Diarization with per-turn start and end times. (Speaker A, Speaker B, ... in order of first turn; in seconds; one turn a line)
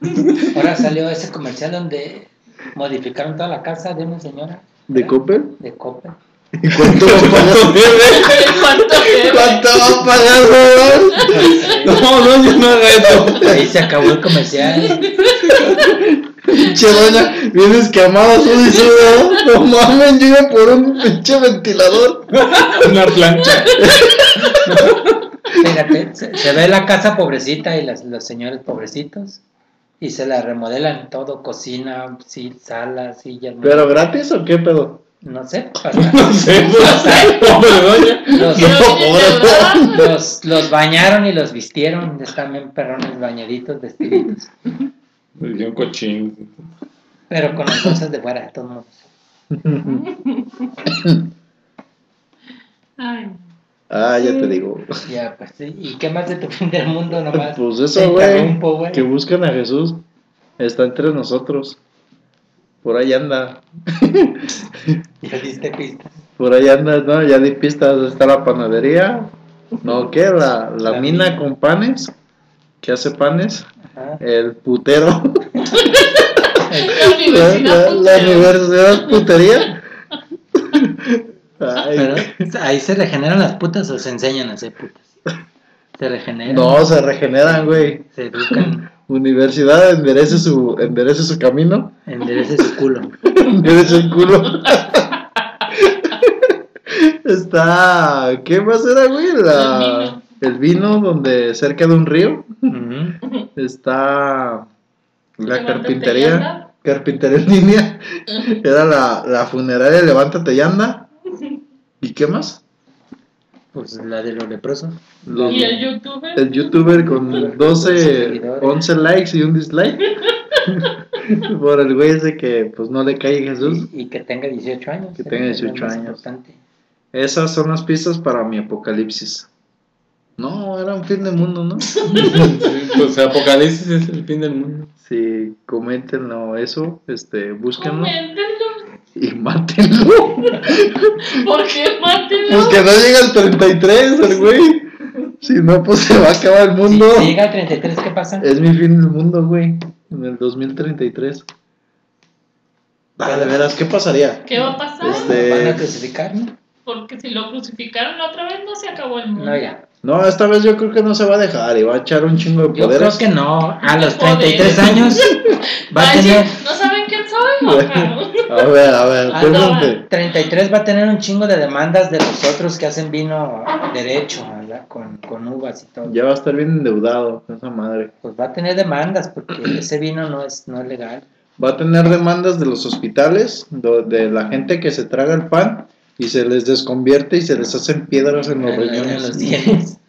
Speaker A: 0.1-0.5
Speaker B: 0.5-6.2
Speaker C: 4.9-5.5
Speaker C: 6.6-11.7
Speaker A: 6.7-8.5
Speaker D: 8.0-9.9
Speaker D: 11.1-11.5
Speaker B: 11.2-12.1
Speaker A: 11.7-13.9
Speaker C: 13.3-13.7
Speaker B: 13.4-15.1
Speaker D: 14.8-15.7
Speaker A: 15.3-16.0
Speaker C: 15.8-22.4
Speaker D: 16.5-17.4
Speaker D: 18.6-19.4
Speaker A: 22.3-25.2
Speaker D: 23.4-23.8
Speaker C: 23.8-24.8
Speaker B: 25.6-29.4
Speaker B: 30.0-34.0
Speaker C: 33.6-35.0
Speaker B: 35.2-37.6
Speaker A: 35.9-38.4
Speaker D: 37.5-40.1
Speaker B: 38.3-38.9
Speaker C: 38.5-40.0
Speaker B: 39.8-44.5
Speaker A: 45.4-46.6
Speaker B: 47.3-49.0
Speaker C: 49.5-50.0
Speaker D: 49.8-50.8
Speaker C: 50.9-51.3
Speaker D: 53.0-53.4
Speaker C: 53.9-54.9
Speaker D: 54.2-54.5
Speaker B: 55.0-59.0
Speaker C: 57.3-60.0
Speaker C: 60.6-61.8
Speaker C: 62.8-65.0
Speaker B: 65.2-66.2
Speaker C: 66.4-72.1
Speaker B: 70.8-71.5
Speaker C: 72.8-73.7
Speaker B: 73.9-74.2
Speaker C: 74.2-75.8
Speaker D: 75.7-79.4
Speaker B: 76.7-77.1
Speaker C: 76.8-79.8
Speaker C: 80.6-82.3
Speaker B: 81.9-85.1
Speaker B: 86.0-86.9
Speaker C: 86.5-91.9
Speaker B: 87.4-88.8
Speaker B: 92.0-93.1
Speaker C: 93.3-95.1
Speaker D: 93.7-95.7
Speaker C: 95.7-102.5
Speaker D: 99.5-100.2
Speaker B: 102.7-103.2
Speaker C: 103.5-104.7
Speaker C: 105.4-111.1
Speaker D: 105.5-106.7
Speaker C: 112.0-112.6
Speaker B: 113.7-115.9
Speaker C: 115.2-115.8
Speaker D: 115.5-117.4
Speaker C: 116.3-120.1
Speaker B: 116.9-118.8
Speaker D: 120.2-120.6
Speaker C: 120.7-123.9
Speaker B: 123.6-126.6
Speaker C: 125.2-126.2
Speaker C: 127.1-129.5
Speaker C: 130.4-132.7
Speaker D: 132.0-132.4
Speaker A: 132.2-134.9
Speaker C: 135.0-138.2
Speaker D: 137.8-138.9
Speaker C: 139.2-141.4
Speaker D: 141.2-142.9
Speaker C: 142.5-147.4
Speaker B: 146.8-148.5
Speaker C: 148.4-151.4
Speaker C: 153.2-155.8
Speaker B: 153.2-153.8
Speaker D: 154.4-155.4
Speaker B: 155.0-156.5
Speaker D: 156.8-159.6
Speaker B: 159.3-159.8
Speaker C: 160.0-163.2
Speaker B: 162.7-165.3
Speaker D: 163.8-168.7
Speaker C: 164.9-165.3
Speaker B: 165.9-166.6
Speaker C: 167.6-170.0
Speaker D: 169.3-169.9
Speaker B: 169.3-176.2
Speaker C: 176.0-178.1
Speaker B: 178.2-181.2
Speaker C: 181.6-189.5
Speaker B: 188.6-190.0